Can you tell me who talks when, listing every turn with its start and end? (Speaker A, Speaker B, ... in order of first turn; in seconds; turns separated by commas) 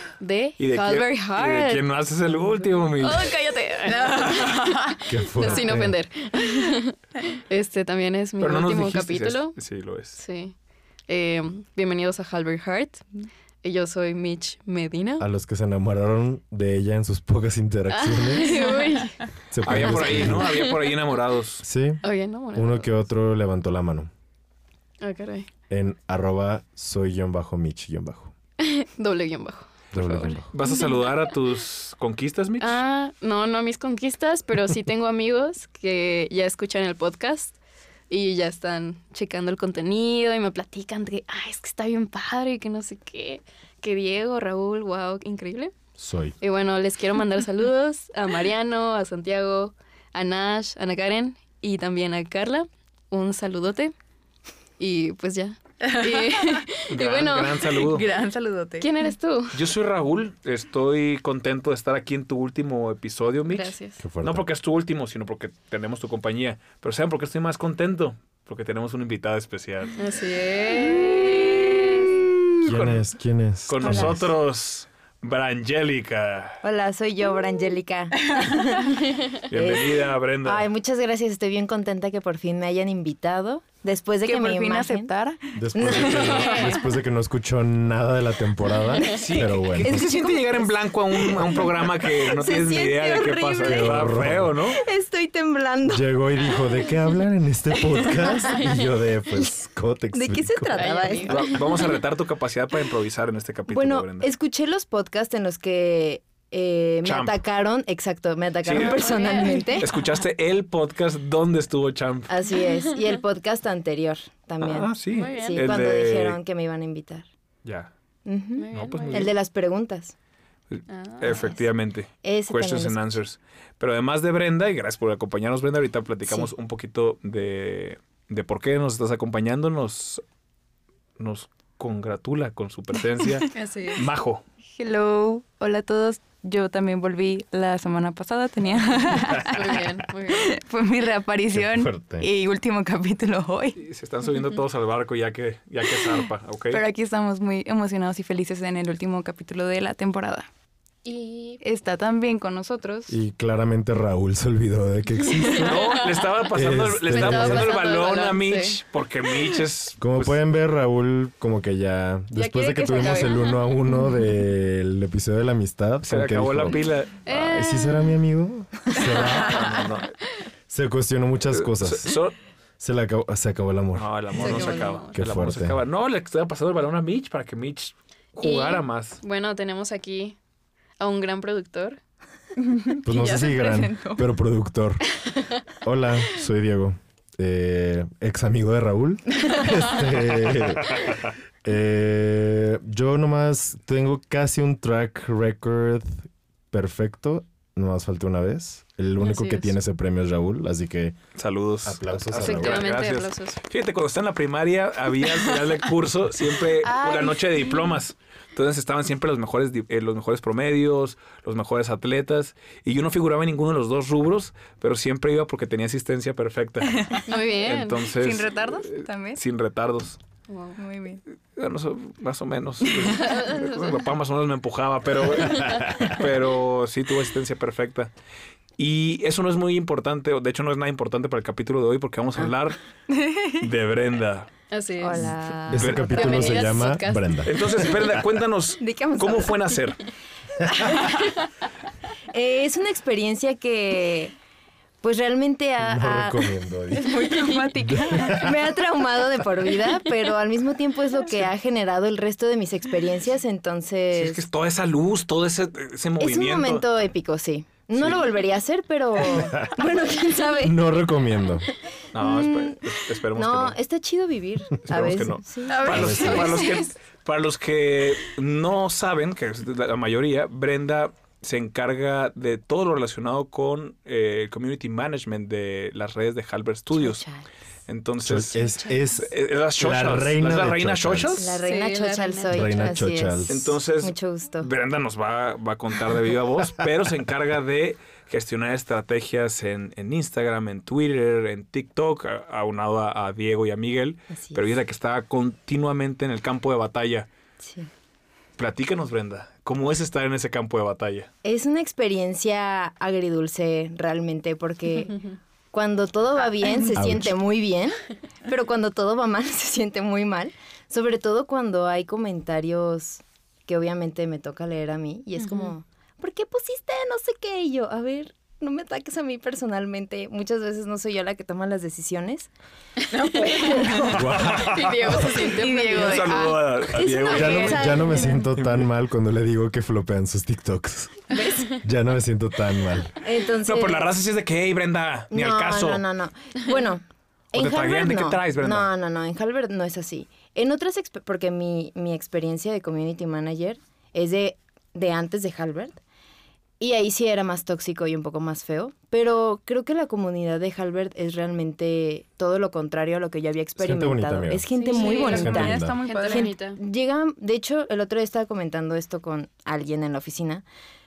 Speaker A: 0.2-1.8, Speaker B: 0.6-3.4, Speaker A: 2.8-9.6, Speaker C: 3.9-4.7, Speaker D: 5.1-6.0, Speaker B: 8.4-10.2, Speaker A: 10.2-10.6, Speaker A: 11.1-13.1, Speaker A: 13.6-15.3, Speaker D: 15.2-18.6, Speaker A: 17.9-19.9, Speaker D: 19.5-20.7, Speaker B: 19.6-21.6, Speaker A: 20.4-20.9, Speaker D: 21.6-22.0, Speaker A: 22.0-22.9, Speaker D: 22.5-24.1, Speaker A: 25.0-25.5, Speaker D: 25.7-28.3, Speaker A: 28.6-31.2, Speaker D: 29.9-30.5, Speaker B: 30.5-32.8, Speaker A: 32.6-37.6, Speaker A: 38.1-45.7, Speaker D: 46.0-46.4, Speaker A: 46.4-53.9, Speaker A: 54.8-57.8, Speaker C: 55.9-56.7, Speaker B: 56.9-58.0, Speaker C: 57.8-58.9, Speaker A: 58.8-59.6, Speaker B: 59.5-70.0, Speaker A: 63.5-64.0, Speaker D: 64.0-64.5, Speaker A: 70.0-72.1, Speaker B: 72.6-73.1, Speaker D: 72.6-74.3, Speaker B: 73.7-76.6, Speaker E: 73.8-74.2, Speaker E: 76.6-85.1, Speaker B: 79.5-80.7, Speaker C: 84.3-86.7, Speaker D: 85.5-90.0, Speaker E: 85.7-86.7, Speaker B: 85.8-86.7, Speaker A: 86.2-86.7, Speaker E: 89.0-94.1, Speaker B: 89.1-94.8, Speaker D: 93.6-94.6, Speaker E: 94.7-96.1, Speaker D: 95.9-100.9, Speaker A: 98.5-98.8, Speaker E: 100.1-101.5, Speaker A: 100.7-101.8, Speaker B: 101.3-104.3, Speaker E: 103.7-109.9, Speaker B: 107.0-107.4, Speaker B: 108.6-109.2, Speaker A: 108.8-109.8, Speaker B: 109.8-112.3, Speaker E: 112.3-117.3, Speaker B: 114.6-116.4, Speaker A: 115.1-115.9, Speaker B: 117.7-117.9, Speaker E: 118.3-120.1, Speaker A: 118.6-119.3, Speaker B: 118.7-119.3, Speaker B: 120.7-130.2, Speaker A: 120.9-121.4, Speaker E: 121.3-121.6, Speaker E: 122.2-123.2, Speaker E: 126.3-126.5, Speaker B: 131.2-134.4, Speaker A: 133.5-134.1, Speaker C: 134.8-143.8, Speaker A: 139.5-140.6, Speaker D: 141.5-142.3, Speaker B: 143.8-146.8, Speaker C: 146.7-150.5, Speaker A: 151.1-151.6, Speaker C: 151.6-153.2, Speaker D: 153.1-156.0, Speaker B: 155.5-160.4, Speaker A: 155.8-156.1, Speaker D: 156.5-157.7, Speaker A: 157.1-158.8, Speaker D: 160.0-169.9, Speaker C: 162.3-163.6, Speaker B: 166.1-167.2, Speaker A: 167.3-168.2, Speaker B: 169.3-170.1, Speaker D: 170.7-172.2, Speaker B: 171.5-172.3, Speaker D: 172.8-175.8, Speaker B: 173.9-179.2, Speaker A: 174.4-175.2, Speaker A: 178.4-180.4, Speaker A: 181.0-182.0, Speaker C: 182.6-184.2, Speaker D: 183.0-185.2, Speaker D: 185.8-201.2, Speaker B: 201.3-220.2, Speaker D: 201.8-202.8, Speaker A: 202.3-203.6, Speaker A: 217.3-218.1, Speaker C: 218.1-219.4, Speaker A: 220.5-220.8, Speaker C: 220.8-221.2, Speaker B: 221.6-228.1, Speaker A: 223.2-224.0, Speaker D: 225.7-226.1, Speaker B: 228.8-232.8, Speaker C: 233.2-233.5, Speaker B: 233.4-234.6, Speaker A: 234.7-235.3, Speaker E: 235.0-236.7, Speaker D: 235.7-237.5, Speaker B: 235.7-236.6, Speaker A: 235.9-237.5, Speaker B: 237.4-240.0, Speaker E: 238.8-239.7, Speaker E: 242.3-244.3, Speaker E: 245.0-246.5, Speaker D: 245.8-248.5, Speaker C: 246.9-248.5, Speaker E: 248.3-254.4, Speaker B: 254.1-256.8, Speaker E: 256.2-260.8, Speaker B: 258.0-258.2, Speaker D: 259.3-259.8, Speaker D: 260.6-261.7, Speaker B: 262.1-263.8, Speaker E: 262.2-266.4, Speaker B: 264.9-277.2, Speaker A: 265.7-266.6, Speaker C: 265.7-266.9, Speaker D: 265.9-266.6, Speaker E: 276.9-277.5, Speaker B: 277.9-278.6, Speaker D: 278.2-281.6, Speaker A: 278.6-279.0, Speaker B: 279.2-281.6, Speaker E: 281.4-284.7, Speaker A: 281.6-283.0, Speaker D: 282.5-283.6, Speaker B: 283.5-297.3, Speaker E: 294.3-294.6, Speaker E: 297.6-297.9, Speaker B: 298.6-301.3, Speaker E: 301.4-305.2, Speaker E: 305.7-322.5, Speaker D: 306.9-307.3, Speaker A: 323.1-326.5, Speaker C: 323.2-324.3, Speaker E: 323.3-324.1, Speaker B: 324.0-328.9, Speaker D: 324.2-325.3, Speaker C: 325.4-326.7, Speaker E: 326.9-328.4, Speaker C: 327.3-328.4, Speaker D: 327.3-333.1, Speaker E: 331.3-331.8, Speaker E: 333.2-334.1, Speaker B: 333.6-336.0, Speaker E: 335.3-346.0, Speaker B: 337.6-338.9, Speaker E: 346.8-360.6, Speaker D: 353.8-356.0, Speaker A: 354.8-356.8, Speaker C: 354.9-356.6